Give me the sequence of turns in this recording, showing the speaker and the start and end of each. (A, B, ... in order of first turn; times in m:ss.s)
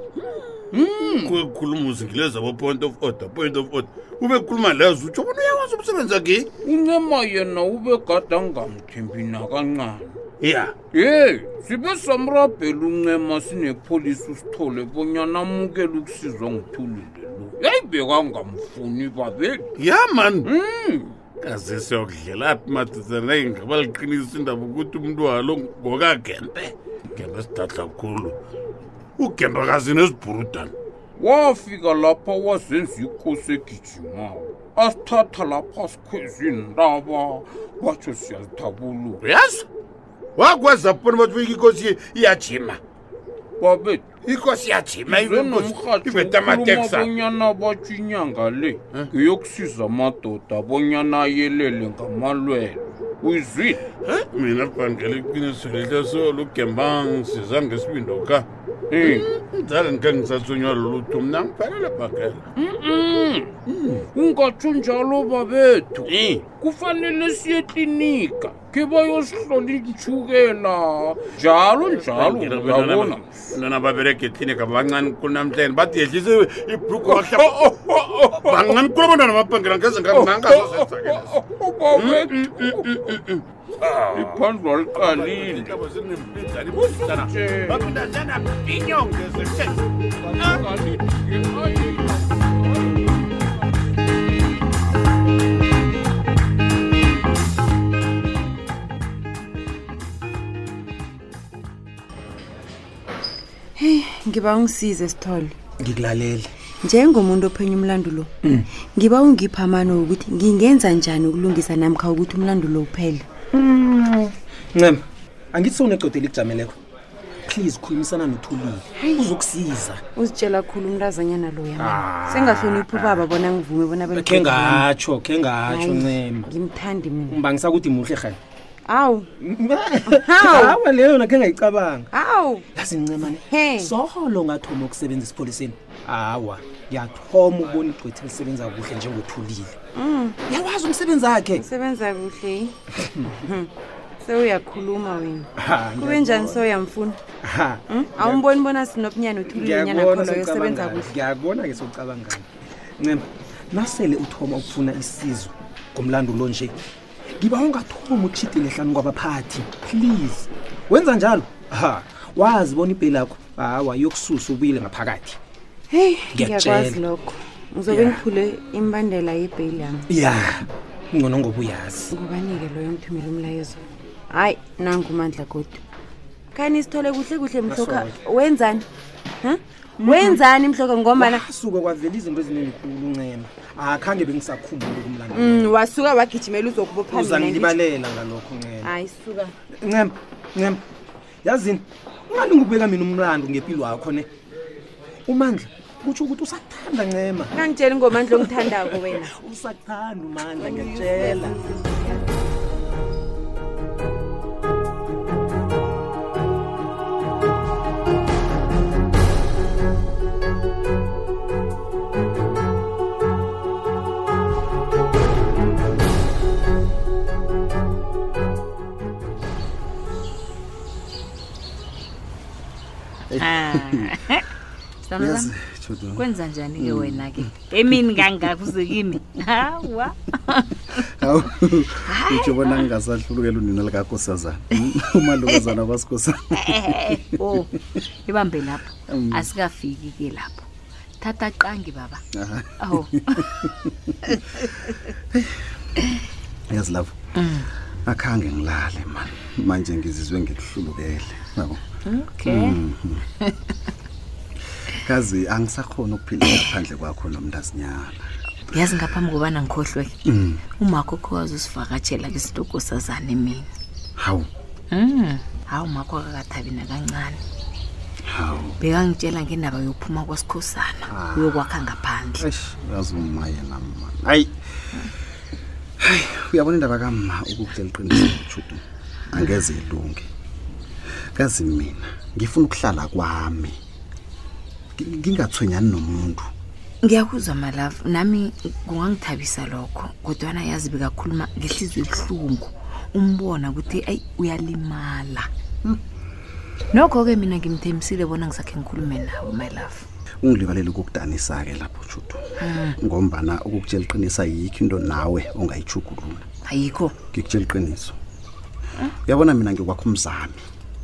0:00.2-0:06.5 A
0:00.7-0:01.4 B
0:06.6-0:10.2 B
0:10.4-0:10.8 A
0:10.9-0:19.7 B
0:19.8-0:20.5 A
0:20.4-0:21.2 B
0:21.4-0:28.4 A
0:29.2-0:30.7 A
0:31.2-0:39.2 B
0:39.2-0:39.6 A
0:40.4-0:42.8 A
0:43.6-0:44.1 B
0:44.2-0:47.1 A
0:45.1-0:53.8 B
0:54.0-1:02.4 A
0:58.9-0:59.2 B
1:02.6-1:03.5 B
1:03.7-1:04.0 A
1:04.1-1:13.5 B
1:06.1-1:06.4 A
1:12.0-1:21.3 A
1:17.0-1:18.8 B
1:20.1-1:23.0 B
1:21.9-1:29.8 A
1:24.1-1:25.8 B
1:26.7-1:27.9 B
1:30.2-1:33.8 B
1:30.4-1:30.7 A
1:43.8-1:45.6 C
1:45.8-1:46.5 D
1:46.8-1:53.4 C
1:53.5-1:55.0 D
1:55.5-1:56.8 D
1:57.4-2:00.0 D
2:00.2-2:04.9 C
2:01.8-2:03.2 D
2:04.1-2:06.5 D
2:05.6-2:07.4 C
2:07.3-2:08.4 D
2:08.8-2:09.3 C
2:09.4-2:12.1 D
2:10.1-2:10.8 C
2:12.1-2:12.7 C
2:12.7-2:19.8 D
2:13.3-2:13.9 C
2:19.9-2:20.4 C
2:20.5-2:21.6 D
2:21.6-2:22.7 C
2:23.3-2:23.7 C
2:24.2-2:27.2 C
2:25.6-2:26.7 D
2:27.4-2:28.5 D
2:27.9-2:31.1 C
2:29.5-2:32.5 D
2:33.0-2:36.8 D
2:37.4-2:45.4 D
2:45.9-2:50.1 C
2:46.3-2:47.0 D
2:47.9-2:48.2 D
2:50.1-2:52.1 D
2:52.1-2:55.8 C
2:56.5-2:58.8 C
2:57.7-2:58.1 D
2:59.4-3:01.4 C
3:00.0-3:00.4 D
3:01.2-3:05.8 D
3:05.3-3:07.8 C
3:07.1-3:08.9 D
3:08.8-3:09.5 C
3:09.8-3:10.8 D
3:11.4-3:14.3 D
3:15.3-3:17.5 D
3:17.5-3:19.3 C
3:19.1-3:21.6 D
3:20.6-3:22.1 C
3:43.3-3:44.1 E
3:43.4-3:44.4 F
3:45.0-3:45.5 F
3:45.2-3:47.4 E
3:46.2-3:51.0 F
3:51.2-3:57.6 E
3:52.0-3:52.8 F
3:56.6-3:57.7 F
3:58.2-4:00.6 F
3:59.1-3:59.5 E
4:01.2-4:02.2 F
4:02.3-4:03.9 E
4:02.8-4:03.5 F
4:04.6-4:05.6 E
4:06.7-4:07.1 E
4:07.4-4:07.7 F
4:08.1-4:11.8 E
4:12.0-4:12.8 F
4:12.4-4:13.2 E
4:14.9-4:18.2 E
4:18.7-4:20.1 F
4:20.3-4:20.6 E
4:20.8-4:23.6 F
4:24.2-4:24.4 E
4:24.9-4:27.4 F
4:28.3-4:28.8 E
4:28.8-4:32.4 F
4:31.1-4:31.6 E
4:32.4-4:34.5 E
4:36.0-4:40.3 E
4:41.3-4:43.8 E
4:45.0-4:46.4 E
4:47.0-4:55.5 F
4:56.9-5:00.0 F
5:00.4-5:02.4 E
5:02.6-5:03.0 F
5:03.0-5:06.4 E
5:06.6-5:07.1 F
5:07.3-5:08.2 E
5:09.2-5:10.6 E